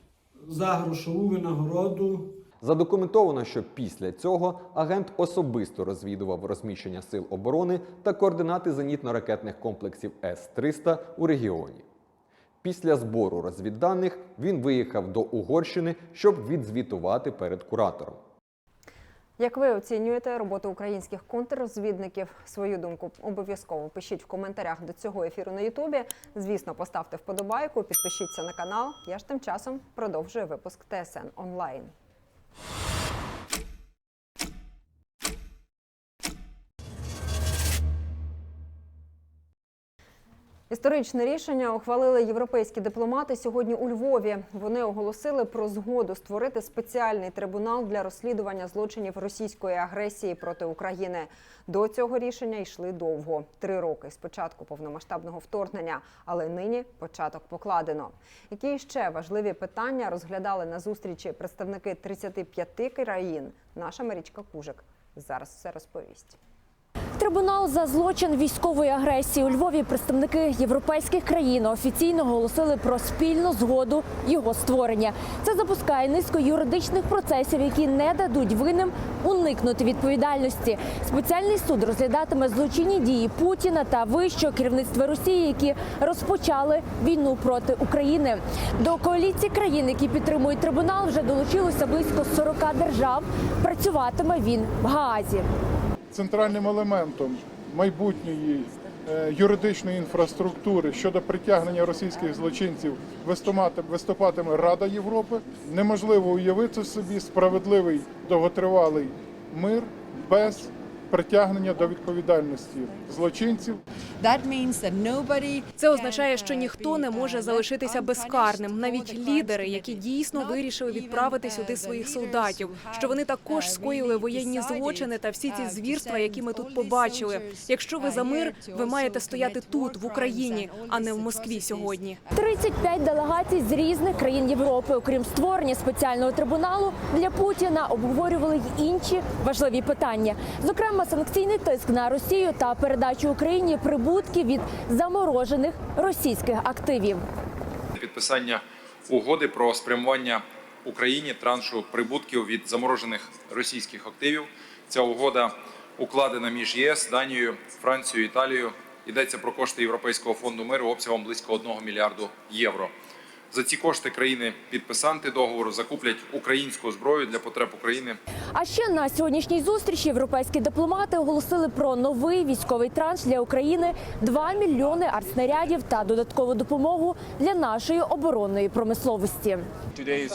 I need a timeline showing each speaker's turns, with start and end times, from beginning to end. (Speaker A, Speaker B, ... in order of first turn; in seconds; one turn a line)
Speaker A: 0.4-2.4
Speaker B: 2.6-11.9
Speaker B: 12.6-18.2
Speaker C: 19.4-31.9
Speaker C: 40.7-66.4
Speaker D: 67.2-95.5
Speaker E: 96.1-113.8
Speaker F: 114.2-132.4
Speaker D: 132.4-147.2
Speaker G: 147.9-162.9
Speaker G: 163.5-168.2
Speaker D: 168.5-179.7